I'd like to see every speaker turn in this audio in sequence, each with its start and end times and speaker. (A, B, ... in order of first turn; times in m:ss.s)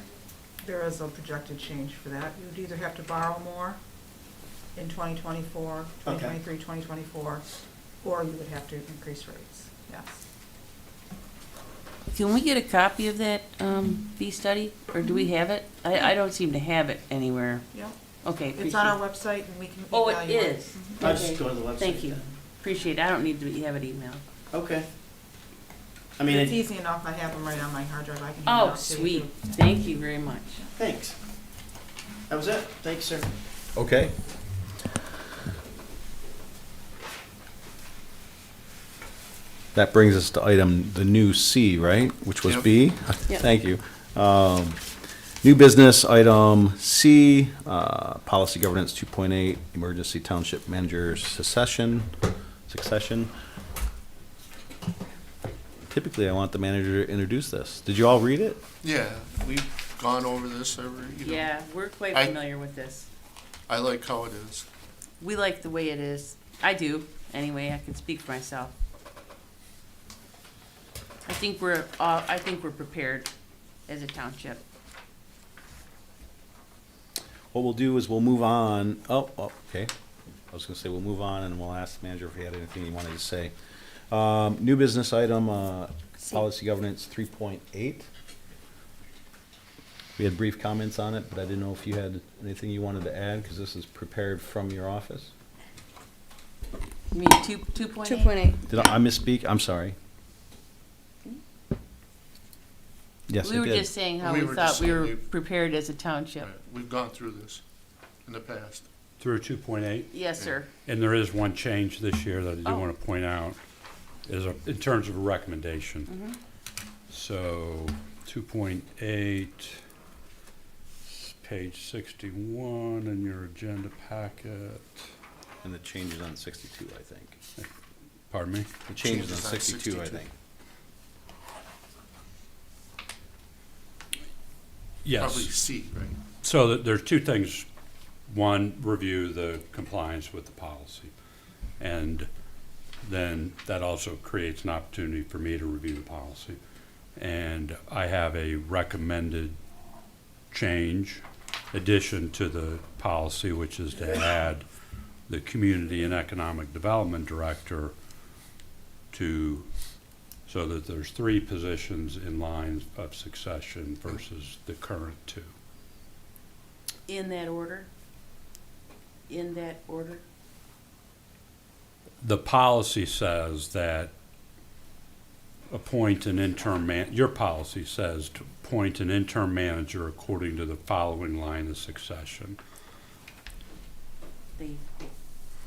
0:00.6-0:03.8 A
0:04.8-0:07.4 A
0:06.0-0:06.4 B
0:08.0-0:10.2 A
0:12.1-0:17.6 C
0:17.7-0:18.0 A
0:18.2-0:19.0 C
0:18.5-0:21.2 A
0:19.9-0:24.2 C
0:21.0-0:22.2 B
0:24.5-0:24.9 B
0:26.2-0:26.6 B
0:26.2-0:29.8 A
0:28.4-0:30.6 C
0:30.8-0:31.1 B
0:32.3-0:33.3 B
0:33.7-0:34.1 D
0:39.7-0:44.8 D
0:45.4-0:52.1 D
0:52.7-0:53.3 D
0:55.9-0:58.6 D
0:58.8-1:01.5 E
1:01.2-1:03.1 C
1:02.1-1:02.4 E
1:03.7-1:04.6 E
1:05.2-1:08.7 C
1:11.2-1:13.3 C
1:13.9-1:14.6 C
1:17.5-1:19.9 D
1:20.5-1:23.5 D
1:24.1-1:28.1 D
1:30.2-1:35.3 D
1:37.1-1:38.4 C
1:38.7-1:39.9 D
1:43.3-1:43.9 D
1:43.4-1:46.5 C
1:44.2-1:45.2 E
1:46.4-1:47.6 E
1:48.2-1:48.9 E
1:49.2-1:50.2 F
1:50.1-1:50.7 C
1:50.3-1:50.6 E
1:50.8-1:53.6 F
1:52.6-1:52.9 C
1:54.2-1:56.1 F
1:56.1-1:56.4 C
1:57.1-1:59.8 F
2:01.0-2:05.1 F
2:05.6-2:07.4 D
2:08.3-2:08.7 F
2:08.9-2:10.3 D
2:08.9-2:10.2 E
2:15.0-2:15.5 F
2:15.2-2:16.2 E
2:16.4-2:17.6 F
2:18.3-2:21.1 F
2:21.8-2:22.3 F
2:23.0-2:26.6 F
2:27.2-2:29.6 F
2:30.5-2:34.6 F
2:35.3-2:37.9 F
2:39.1-2:39.7 F
2:40.5-2:45.5 F
2:47.1-2:47.9 C
2:49.3-2:50.2 C
2:52.2-2:54.1 F
2:55.7-3:02.6 F
3:04.6-3:05.1 C